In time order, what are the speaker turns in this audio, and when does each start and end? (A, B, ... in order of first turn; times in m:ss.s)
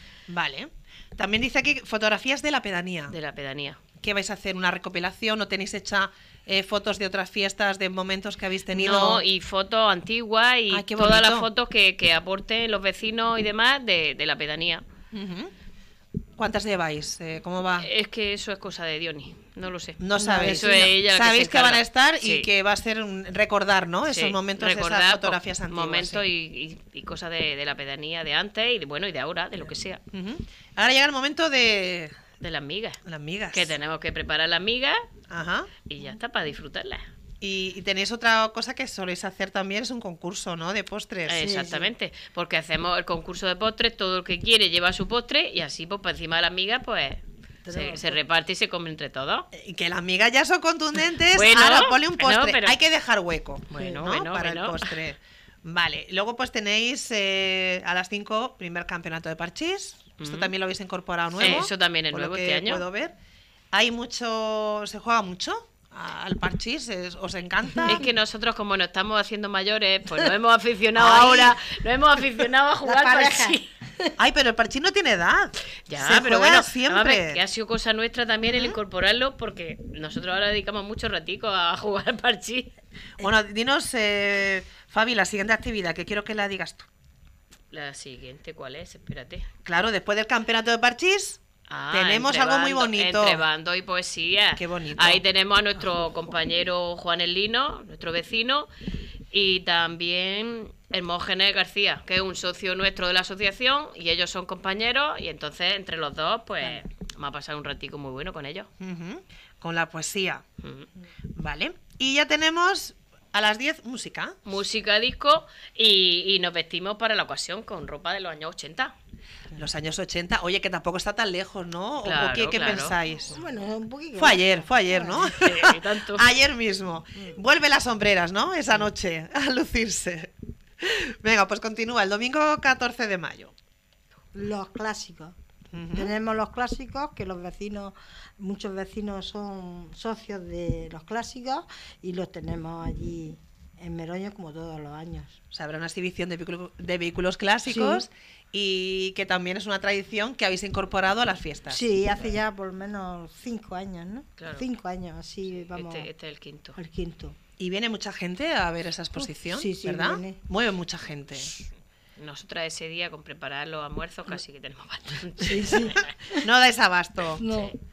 0:00.3-0:03.1 A
0:03.1-0:03.8 B
0:04.0-0:09.2 A
0:08.7-0:14.8 B
0:10.7-0:11.5 A
0:15.1-0:15.5 A
0:16.4-0:17.9 A
0:17.8-0:22.5 B
0:20.0-0:26.2 A
0:20.2-0:20.8 C
0:24.1-0:30.0 B
0:30.1-0:32.2 A
0:32.4-0:33.0 B
0:33.1-0:33.7 A
0:33.5-0:35.0 B
0:35.3-0:35.7 A
0:35.9-0:37.0 B
0:37.4-0:41.4 A
0:41.3-0:49.5 B
0:41.4-0:41.9 C
0:47.6-0:48.2 C
0:49.5-1:03.1 A
0:51.3-0:52.8 B
0:53.7-0:55.0 B
0:53.8-0:54.0 C
1:00.2-1:00.5 B
1:01.4-1:02.8 B
1:03.7-1:08.0 A
1:07.7-1:08.0 C
1:07.9-1:13.7 B
1:11.0-1:11.6 A
1:12.8-1:14.2 C
1:14.2-1:17.4 A
1:15.9-1:22.7 B
1:23.2-1:26.9 A
1:27.7-1:29.5 B
1:29.6-1:31.4 A
1:31.7-1:38.7 B
1:31.9-1:33.4 A
1:34.6-1:35.2 A
1:39.3-1:48.7 B
1:48.8-1:50.4 A
1:50.6-1:50.9 B
1:51.4-1:54.4 A
1:54.4-1:58.9 B
1:59.5-2:03.4 A
2:02.0-2:03.0 B
2:03.2-2:05.3 C
2:04.2-2:13.5 A
2:05.2-2:06.3 B
2:14.3-2:15.4 C
2:15.7-2:16.1 A
2:15.9-2:25.4 C
2:25.5-2:31.8 A
2:27.7-2:28.1 C
2:31.7-2:36.1 C
2:34.4-2:34.7 B
2:35.7-2:36.8 B
2:36.8-2:37.4 C
2:37.6-2:41.5 A
2:39.2-2:40.4 C
2:42.2-2:46.1 B
2:45.4-2:46.5 C
2:45.7-2:47.4 A
2:47.4-2:47.7 C